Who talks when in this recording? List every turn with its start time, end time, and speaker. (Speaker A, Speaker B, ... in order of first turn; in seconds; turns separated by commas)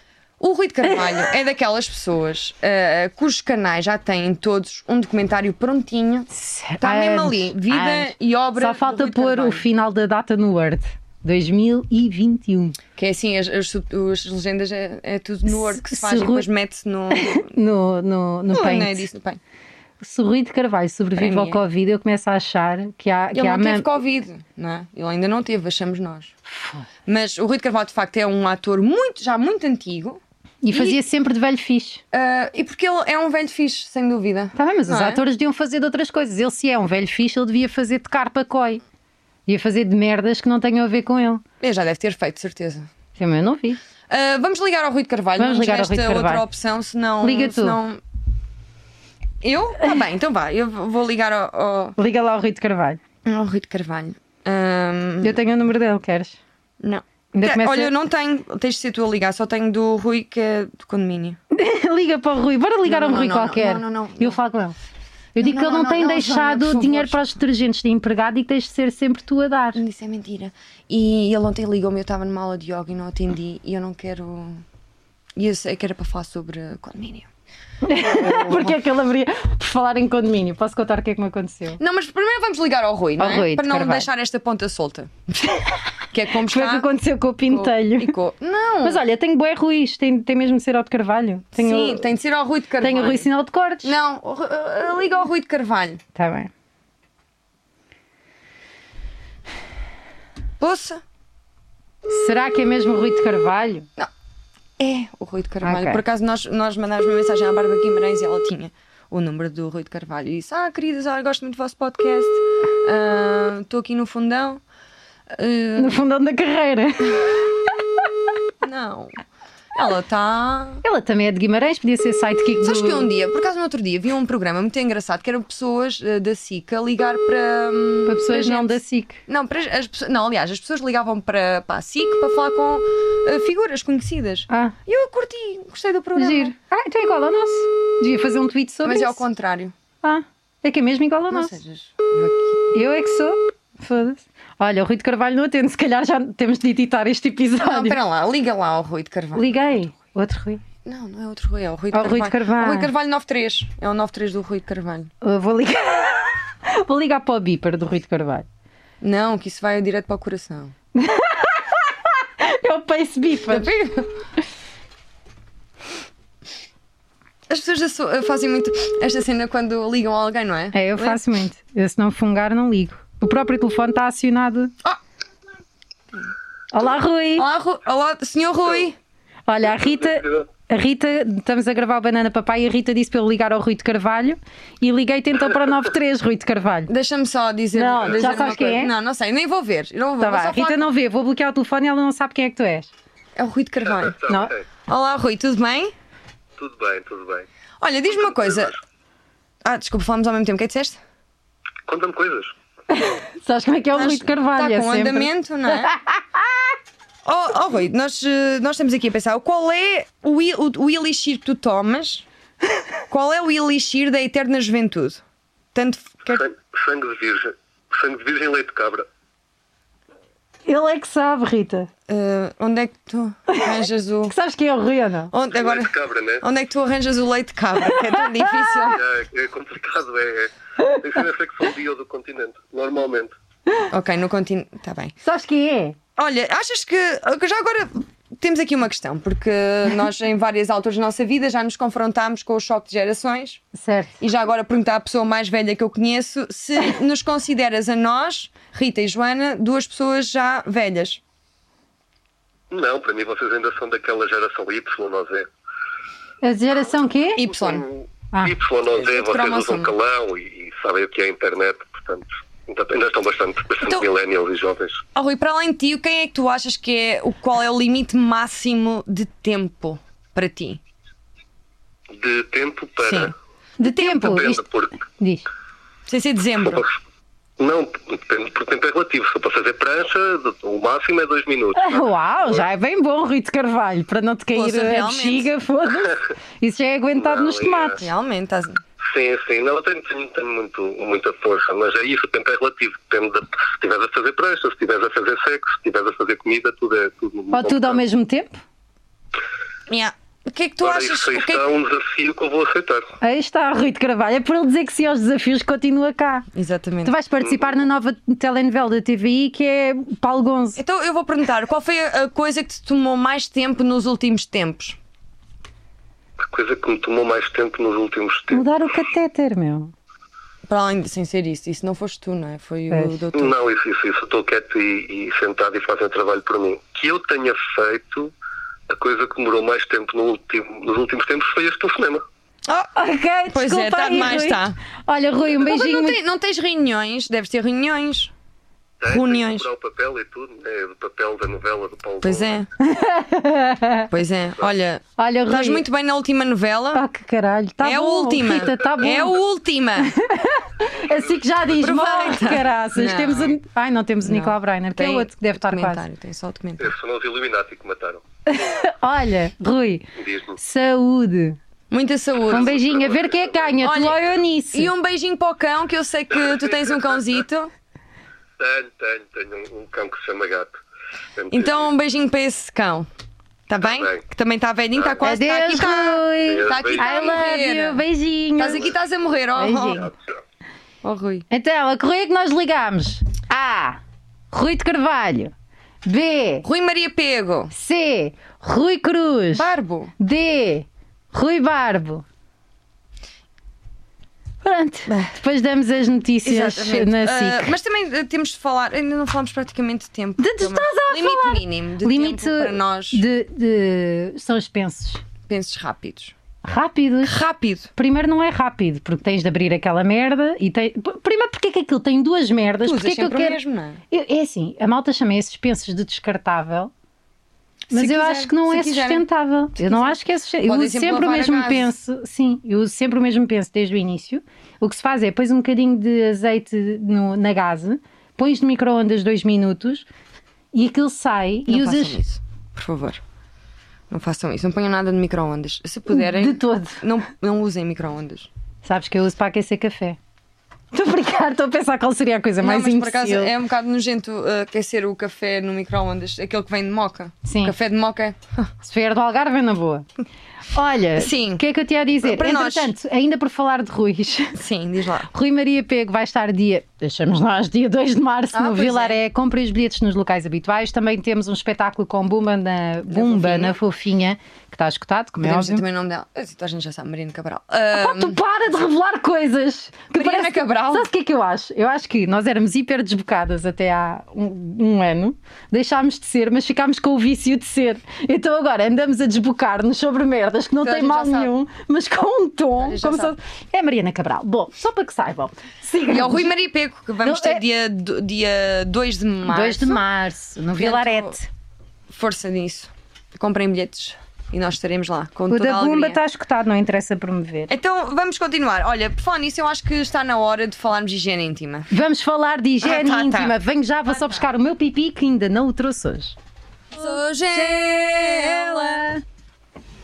Speaker A: 0.4-6.3, Speaker B: 6.3-12.8, Speaker A: 6.8-9.7, Speaker A: 13.0-17.5, Speaker B: 15.5-16.5, Speaker B: 17.1-19.1, Speaker A: 18.5-19.4, Speaker B: 20.0-23.9, Speaker A: 21.2-21.6, Speaker A: 23.3-26.3, Speaker B: 26.5-26.9, Speaker A: 27.1-31.0, Speaker B: 30.6-32.0, Speaker A: 32.1-35.2, Speaker B: 34.6-38.8, Speaker B: 39.5-41.4, Speaker A: 41.6-42.9, Speaker B: 43.2-43.8, Speaker A: 44.1-48.0, Speaker B: 45.4-46.5, Speaker B: 47.2-47.8, Speaker A: 49.4-52.0, Speaker B: 52.0-53.0, Speaker A: 53.2-55.4, Speaker B: 55.2-56.4, Speaker A: 56.8-61.4, Speaker B: 57.3-57.9, Speaker B: 61.5-64.8, Speaker A: 62.9-64.4, Speaker B: 65.4-69.8, Speaker A: 65.4-67.2, Speaker A: 69.8-74.6, Speaker A: 75.4-77.3, Speaker B: 77.8-81.8, Speaker A: 78.0-78.8, Speaker A: 81.8-85.4, Speaker B: 83.2-84.1, Speaker A: 86.1-86.9, Speaker B: 86.4-88.2, Speaker A: 87.5-89.0, Speaker B: 88.8-92.0, Speaker A: 91.6-93.3, Speaker B: 92.8-93.9, Speaker A: 93.8-96.0, Speaker B: 96.2-96.5, Speaker A: 100.6-101.0, Speaker B: 102.1-103.9, Speaker A: 104.8-114.6, Speaker B: 105.6-106.0, Speaker A: 115.3-116.0, Speaker B: 115.8-117.5, Speaker A: 118.6-119.2, Speaker A: 119.8-120.8, Speaker B: 120.8-123.1, Speaker A: 122.6-136.5, Speaker B: 128.1-129.2, Speaker B: 134.5-134.8, Speaker B: 136.2-139.2, Speaker A: 138.8-139.7, Speaker B: 140.0-141.6, Speaker A: 141.3-142.7, Speaker B: 142.7-148.0, Speaker A: 147.6-149.4, Speaker B: 149.3-150.6, Speaker A: 150.8-155.1, Speaker B: 151.9-152.9, Speaker B: 155.2-158.5, Speaker A: 159.0-160.7, Speaker B: 160.9-163.7, Speaker A: 163.5-164.1, Speaker A: 167.5-171.2, Speaker B: 170.7-174.7, Speaker B: 176.7-177.5, Speaker A: 177.4-179.0, Speaker B: 179.5-186.9, Speaker A: 186.9-190.9, Speaker B: 187.7-188.9, Speaker B: 190.2-192.9, Speaker A: 193.4-194.2, Speaker C: 193.9-194.7, Speaker B: 194.3-194.5, Speaker A: 194.9-195.9, Speaker C: 196.6-197.5, Speaker A: 197.8-198.7, Speaker A: 199.6-201.0, Speaker C: 201.9-202.6, Speaker B: 202.9-206.8, Speaker A: 203.9-205.9, Speaker A: 207.2-212.3, Speaker A: 213.1-215.2, Speaker A: 215.7-216.4, Speaker C: 216.3-219.1, Speaker B: 220.7-221.9, Speaker A: 222.1-224.3, Speaker B: 223.5-225.3, Speaker A: 225.3-229.0, Speaker C: 225.5-226.4, Speaker B: 227.9-228.9, Speaker C: 228.9-233.3, Speaker A: 233.9-235.1, Speaker B: 235.2-236.0, Speaker A: 236.2-243.6, Speaker B: 243.7-244.2, Speaker A: 244.2-251.2, Speaker C: 252.7-255.5, Speaker B: 256.4-257.4, Speaker A: 257.4-257.9, Speaker C: 257.5-265.0, Speaker A: 258.9-259.9, Speaker A: 265.1-270.8, Speaker C: 272.1-273.3, Speaker A: 273.0-274.4, Speaker B: 273.8-274.6, Speaker C: 273.9-275.0, Speaker B: 275.2-275.5, Speaker A: 276.1-276.9, Speaker C: 276.7-276.9, Speaker C: 277.6-282.7, Speaker B: 281.8-288.0, Speaker A: 284.5-285.5, Speaker C: 287.2-288.0, Speaker A: 288.0-288.8, Speaker C: 289.1-298.0, Speaker B: 297.5-298.6, Speaker A: 299.9-301.7, Speaker C: 300.8-303.1, Speaker B: 303.2-306.5, Speaker A: 306.5-307.1, Speaker B: 307.0-310.8, Speaker A: 310.8-315.0, Speaker C: 316.4-318.7, Speaker B: 318.5-319.9, Speaker A: 320.7-323.5, Speaker B: 322.9-323.3, Speaker C: 323.3-328.3, Speaker C: 328.9-332.2, Speaker B: 332.9-336.2, Speaker A: 333.5-334.8, Speaker A: 335.5-338.3, Speaker C: 339.0-342.6, Speaker A: 339.1-339.7, Speaker A: 342.2-342.7, Speaker B: 342.8-344.1, Speaker A: 344.1-347.0, Speaker B: 345.2-345.9, Speaker B: 346.9-349.4, Speaker A: 347.8-350.1, Speaker B: 350.0-356.0, Speaker C: 351.0-351.3, Speaker A: 351.8-353.6, Speaker A: 354.2-356.9, Speaker C: 356.8-358.2, Speaker B: 358.5-361.6, Speaker C: 360.2-360.6, Speaker A: 361.9-362.7, Speaker C: 362.5-363.8, Speaker B: 362.5-364.9, Speaker A: 363.8-364.2, Speaker A: 364.7-367.7, Speaker C: 366.4-367.3, Speaker C: 368.6-370.8, Speaker C: 371.4-371.9, Speaker A: 371.5-373.1, Speaker A: 373.7-378.0, Speaker C: 373.8-374.2, Speaker C: 375.0-375.2, Speaker B: 375.2-378.9, Speaker C: 376.4-377.4, Speaker A: 378.6-380.1, Speaker B: 379.6-380.1, Speaker A: 381.0-381.5, Speaker B: 381.5-384.0, Speaker B: 384.5-385.5, Speaker B: 386.1-386.7, Speaker A: 386.6-387.7, Speaker B: 387.7-392.2, Speaker A: 389.5-390.1, Speaker B: 394.6-397.8, Speaker A: 396.4-403.2, Speaker B: 400.4-405.2, Speaker A: 405.5-406.3, Speaker B: 406.6-407.4, Speaker A: 407.2-407.9, Speaker B: 407.9-413.6, Speaker A: 412.8-414.0, Speaker B: 414.1-416.9, Speaker A: 417.9-419.2, Speaker B: 417.9-430.1, Speaker A: 419.8-421.9, Speaker B: 430.7-432.2, Speaker A: 431.7-433.2, Speaker A: 434.1-438.5, Speaker B: 436.1-437.1, Speaker B: 438.8-440.2, Speaker B: 440.9-443.5, Speaker A: 442.6-448.7, Speaker B: 447.4-447.8, Speaker B: 448.8-450.1, Speaker B: 450.7-454.6, Speaker A: 451.2-451.6, Speaker A: 452.2-452.9, Speaker A: 454.6-455.3, Speaker B: 455.3-465.8, Speaker A: 458.5-459.2, Speaker A: 463.1-463.8, Speaker A: 465.4-468.4, Speaker B: 467.9-486.5, Speaker A: 470.1-471.1, Speaker A: 480.8-481.5, Speaker A: 482.8-483.4, Speaker A: 486.1-490.0, Speaker B: 487.2-487.6, Speaker B: 489.5-491.5, Speaker A: 490.8-491.4, Speaker A: 492.1-496.2, Speaker B: 495.5-497.7, Speaker A: 497.7-501.9, Speaker B: 501.9-506.4, Speaker A: 502.8-503.6, Speaker A: 506.9-509.1, Speaker B: 507.9-509.2